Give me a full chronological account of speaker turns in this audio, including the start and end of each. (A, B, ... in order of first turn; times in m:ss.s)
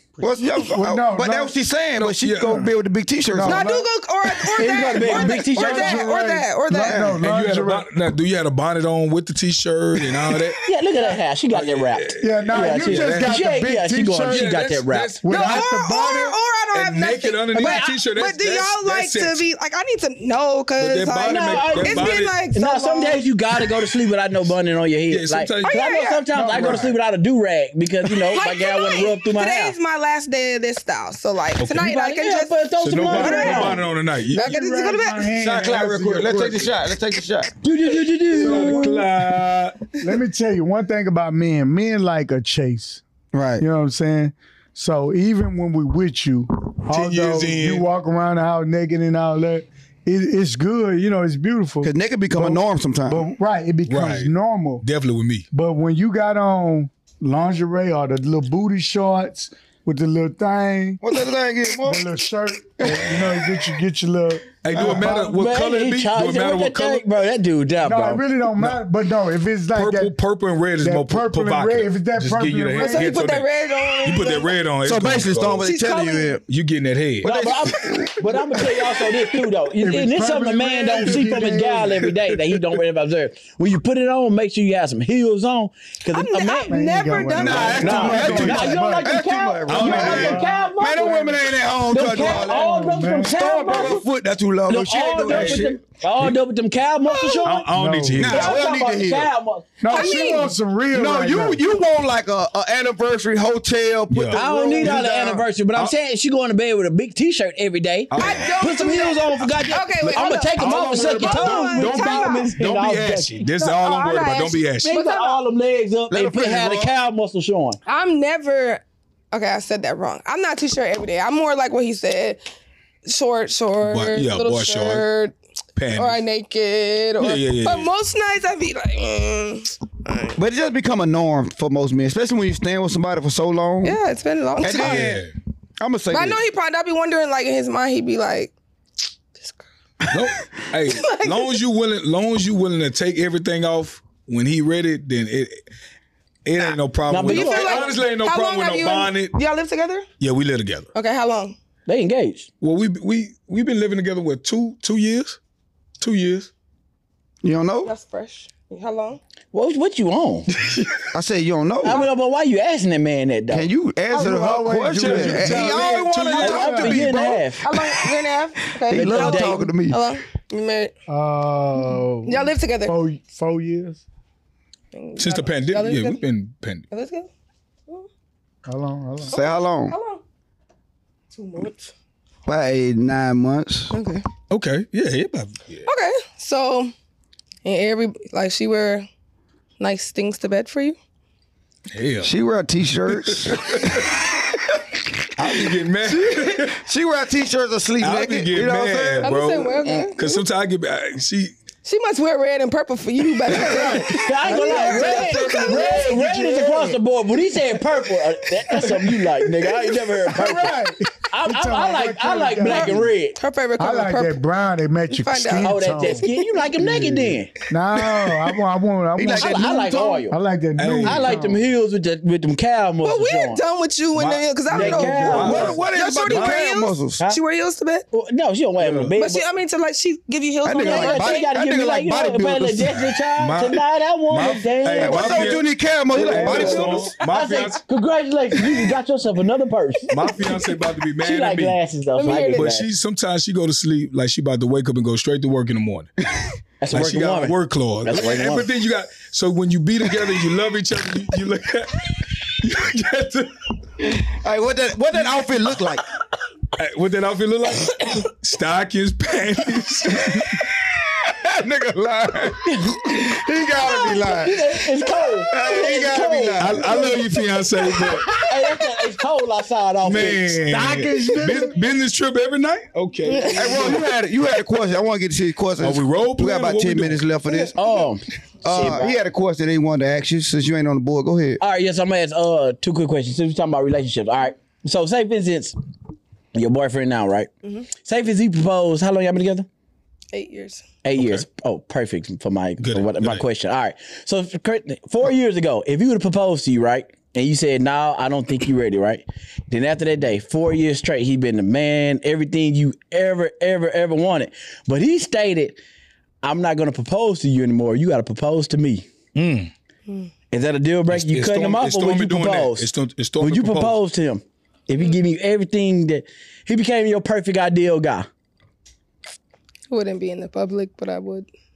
0:00.2-0:03.7 A
0:00.6-0:01.5 B
0:02.0-0:02.7 C
0:03.3-0:03.9 B
0:03.4-0:07.0 D
0:04.6-0:06.0 E
0:05.0-0:07.9 B
0:06.8-0:07.2 A
0:07.2-0:10.6 C
0:10.6-0:15.2 E
0:11.5-0:13.4 C
0:12.2-0:14.5 B
0:14.3-0:15.7 C
0:15.2-0:16.4 B
0:15.3-0:23.3 D
0:16.7-0:19.4 C
0:17.6-0:18.0 E
0:20.8-0:22.5 C
0:21.2-0:29.7 E
0:25.1-0:26.9 C
0:25.6-0:26.2 D
0:26.3-0:26.9 B
0:28.3-0:35.3 D
0:31.6-0:31.9 C
0:31.7-0:33.8 E
0:32.8-0:34.5 C
0:34.3-0:36.7 B
0:35.4-0:37.5 A
0:37.6-0:39.1 E
0:38.3-0:40.0 C
0:38.4-0:39.1 B
0:40.0-0:43.0 B
0:43.3-0:43.6 A
0:43.6-0:54.8 B
0:46.9-0:47.8 C
0:51.8-0:53.3 A
0:53.9-0:55.4 C
0:55.5-1:01.0 B
1:01.0-1:02.1 A
1:01.8-1:05.4 B
1:02.8-1:03.2 A
1:04.6-1:07.0 C
1:04.8-1:08.2 E
1:07.8-1:10.1 B
1:09.7-1:13.5 C
1:10.8-1:13.1 B
1:12.8-1:14.6 D
1:14.0-1:15.7 C
1:14.8-1:16.4 A
1:15.6-1:16.4 D
1:16.5-1:17.5 C
1:17.2-1:18.7 A
1:17.2-1:26.8 E
1:19.8-1:22.1 B
1:26.1-1:28.2 D
1:26.7-1:29.2 B
1:27.4-1:35.8 A
1:27.5-1:28.7 C
1:27.6-1:31.3 E
1:29.6-1:30.5 C
1:29.7-1:31.4 B
1:31.9-1:34.1 E
1:32.1-1:33.9 B
1:34.7-1:37.7 E
1:35.2-1:35.7 C
1:37.4-1:38.6 C
1:37.7-1:38.4 B
1:38.2-1:39.3 A
1:38.2-1:40.2 E
1:39.8-1:41.6 B
1:39.9-1:40.6 D
1:40.9-1:45.4 A
1:44.1-1:45.9 C
1:44.3-1:53.4 E
1:48.1-1:48.6 C
1:48.2-1:52.5 D
1:50.0-1:55.0 C
1:53.6-1:55.4 D
1:54.8-1:57.8 E
1:56.1-1:56.9 A
1:57.9-2:02.4 D
2:03.0-2:05.3 D
2:03.8-2:05.0 C
2:05.8-2:06.2 C
2:05.9-2:10.3 D
2:07.2-2:07.9 C
2:10.4-2:14.0 A
2:13.8-2:15.1 D
2:14.6-2:15.3 A
2:14.7-2:15.3 C
2:15.8-2:16.4 A
2:16.1-2:18.5 D
2:19.3-2:19.6 D
2:20.1-2:25.6 C
2:20.9-2:21.6 D
2:26.4-2:29.4 C
2:27.1-2:28.0 E
2:27.2-2:30.1 D
2:30.2-2:30.9 C
2:30.9-2:31.6 D
2:31.9-2:32.5 E
2:32.6-2:35.4 C
2:36.0-2:36.5 C
2:37.4-2:37.9 A
2:37.8-2:39.2 D
2:39.5-2:40.5 E
2:40.6-2:41.0 C
2:41.1-2:42.0 A
2:41.8-2:43.7 E
2:43.5-2:47.8 A
2:44.1-2:47.0 B
2:45.0-2:47.1 C
2:46.4-2:47.6 E
2:47.6-2:50.9 D
2:48.9-2:50.0 A
2:48.9-2:49.6 E
2:51.1-2:54.0 B
2:52.3-2:52.9 D
2:54.9-2:56.2 D
2:55.2-2:56.9 C
2:56.9-2:57.3 D
2:58.6-2:59.4 B
2:59.3-3:00.0 A
2:59.3-3:00.2 D
3:01.3-3:01.9 D
3:02.4-3:03.9 A
3:03.9-3:04.2 D
3:04.5-3:05.9 C
3:05.9-3:06.9 D
3:07.6-3:09.1 D
3:09.8-3:11.0 D
3:11.9-3:12.3 C
3:12.2-3:14.0 A
3:13.1-3:14.1 C
3:15.4-3:16.8 C
3:16.0-3:19.3 A
3:18.0-3:21.5 C
3:19.2-3:20.4 D
3:21.8-3:26.1 D
3:23.5-3:27.0 B
3:23.8-3:33.4 E
3:30.3-3:33.1 B
3:30.4-3:30.7 D
3:32.6-3:34.4 D
3:33.8-3:41.6 B
3:35.1-3:36.6 D
3:35.6-3:37.5 E
3:39.2-3:40.2 A
3:39.3-3:40.4 E
3:40.8-3:41.4 C
3:41.0-3:43.6 E
3:43.0-3:48.1 D
3:44.1-3:46.6 C
3:44.7-3:45.8 E
3:45.3-3:47.2 A
3:48.1-3:49.4 E
3:48.8-3:49.1 C
3:49.2-3:51.4 D
3:50.6-3:53.0 A
3:50.8-3:55.5 E
3:52.9-3:55.6 C
3:54.9-3:57.1 A
3:56.1-4:00.1 E
3:56.3-3:57.8 C
3:56.3-3:57.7 D
4:00.1-4:01.8 C
4:01.2-4:02.9 E
4:02.1-4:02.7 D
4:02.4-4:06.1 C
4:06.8-4:08.7 E
4:06.9-4:14.1 C
4:14.2-4:16.0 A
4:16.8-4:20.6 C
4:21.6-4:24.6 A
4:22.6-4:23.2 E
4:24.0-4:27.2 E
4:25.5-4:27.1 A
4:26.6-4:28.5 C
4:28.3-4:30.6 E
4:30.0-4:34.1 C
4:30.6-4:31.8 B
4:33.3-4:33.7 D
4:33.5-4:37.7 A
4:35.8-4:37.3 C
4:37.7-4:39.2 E
4:38.6-4:41.6 A
4:41.6-4:45.7 E
4:46.5-4:47.5 E
4:48.0-4:49.7 E
4:50.3-4:50.8 D
4:51.0-5:05.8 E
4:51.2-4:51.4 C
4:52.8-4:53.4 C
5:06.4-5:09.1 E
5:09.3-5:09.7 C
5:10.5-5:18.3 E
5:11.1-5:14.0 C
5:19.9-5:21.5 D